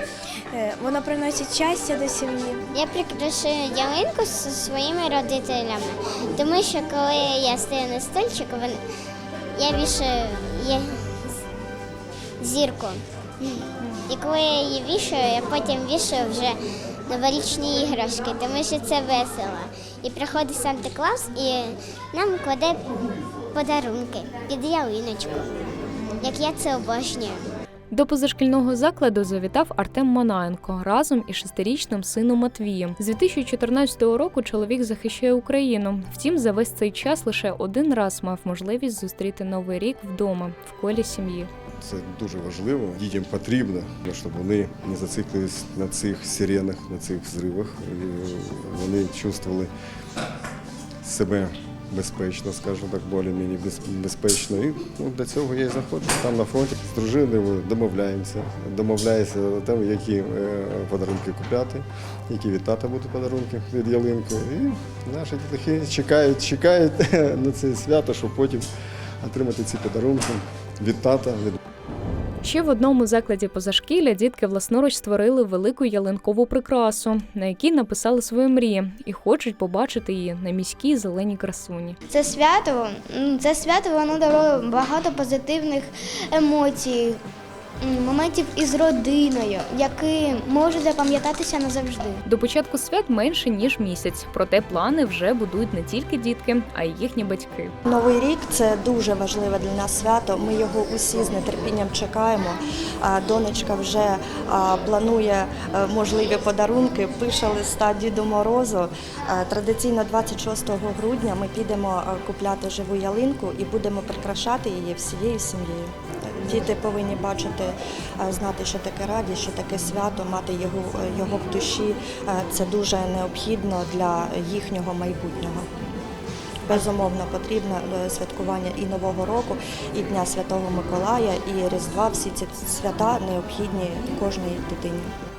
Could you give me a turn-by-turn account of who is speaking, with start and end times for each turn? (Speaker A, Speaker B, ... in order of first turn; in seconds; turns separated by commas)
Speaker A: 0.5-2.6, Speaker B: 2.7-8.8, Speaker B: 9.6-11.2, Speaker B: 12.4-16.6, Speaker B: 17.1-22.9, Speaker B: 23.5-25.6, Speaker B: 26.2-27.5, Speaker C: 27.9-41.5, Speaker D: 41.8-49.7, Speaker D: 51.0-68.7, Speaker D: 69.2-71.6, Speaker C: 72.4-82.0, Speaker E: 82.1-87.2, Speaker E: 87.8-92.2, Speaker C: 92.3-97.7, Speaker F: 97.9-125.7, Speaker F: 126.7-135.2